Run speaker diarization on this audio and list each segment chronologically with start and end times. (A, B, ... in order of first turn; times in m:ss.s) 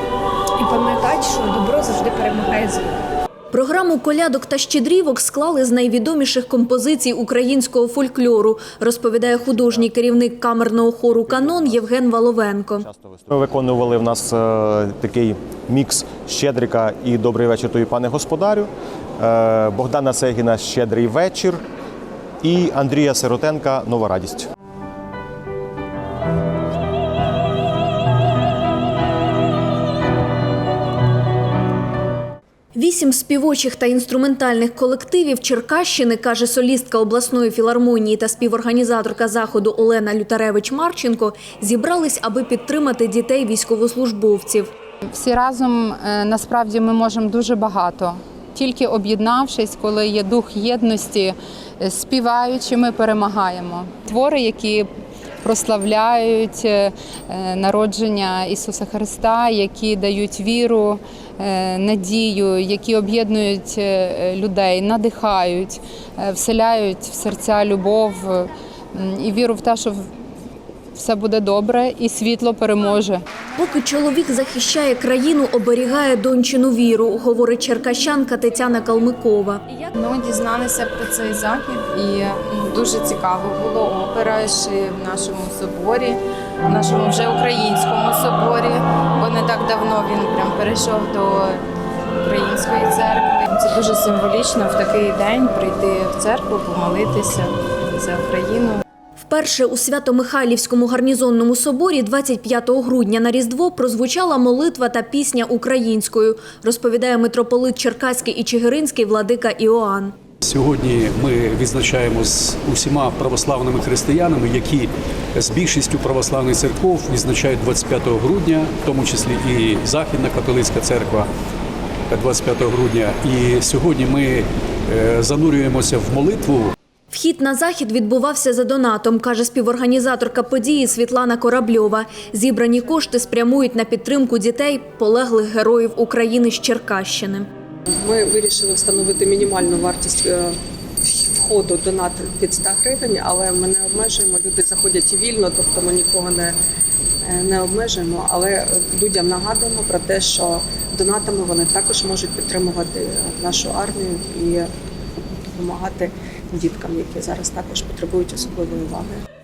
0:00.6-0:03.1 A
0:03.5-0:12.9 B
0:09.2-0:10.2 C
0:11.0-0:11.9 C
0:12.8-0:21.6 C
0:22.4-0:24.5 C
0:32.8-0:44.7 B
0:45.1-0:54.9 D
0:55.4-1:10.1 D
1:10.9-1:13.2 D
1:13.6-1:19.6 B
1:19.9-1:38.8 E
1:39.2-1:50.1 B
1:50.4-2:01.3 F
2:02.1-2:06.8 F
2:07.1-2:17.5 B
2:18.0-2:26.6 G
2:27.3-2:34.7 G
2:35.5-2:39.2 G